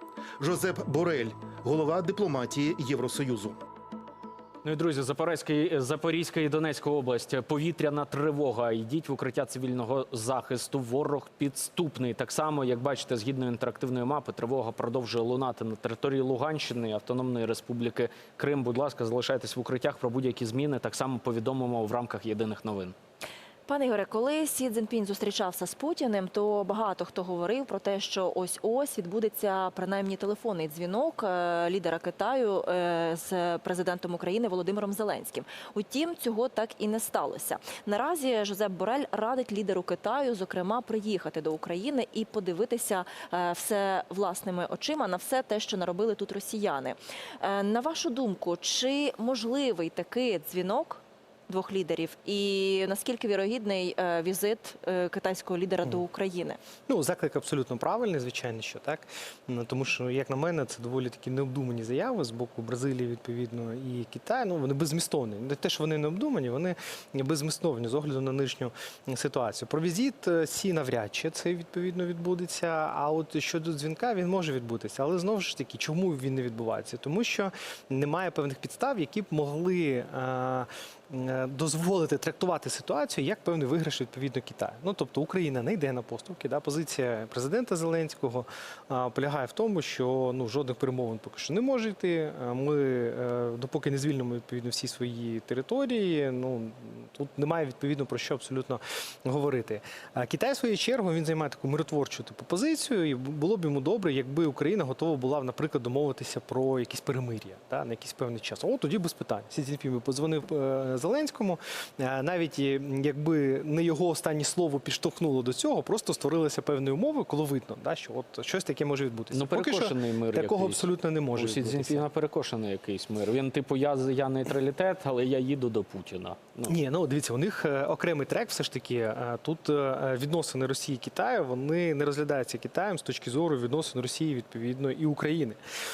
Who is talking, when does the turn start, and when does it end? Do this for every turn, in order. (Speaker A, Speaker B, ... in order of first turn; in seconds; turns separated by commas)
Speaker A: 0.4-3.6, Speaker B: 4.6-22.9, Speaker C: 23.7-56.6, Speaker D: 56.9-122.0, Speaker B: 119.3-120.8, Speaker B: 121.4-126.8, Speaker D: 126.7-135.6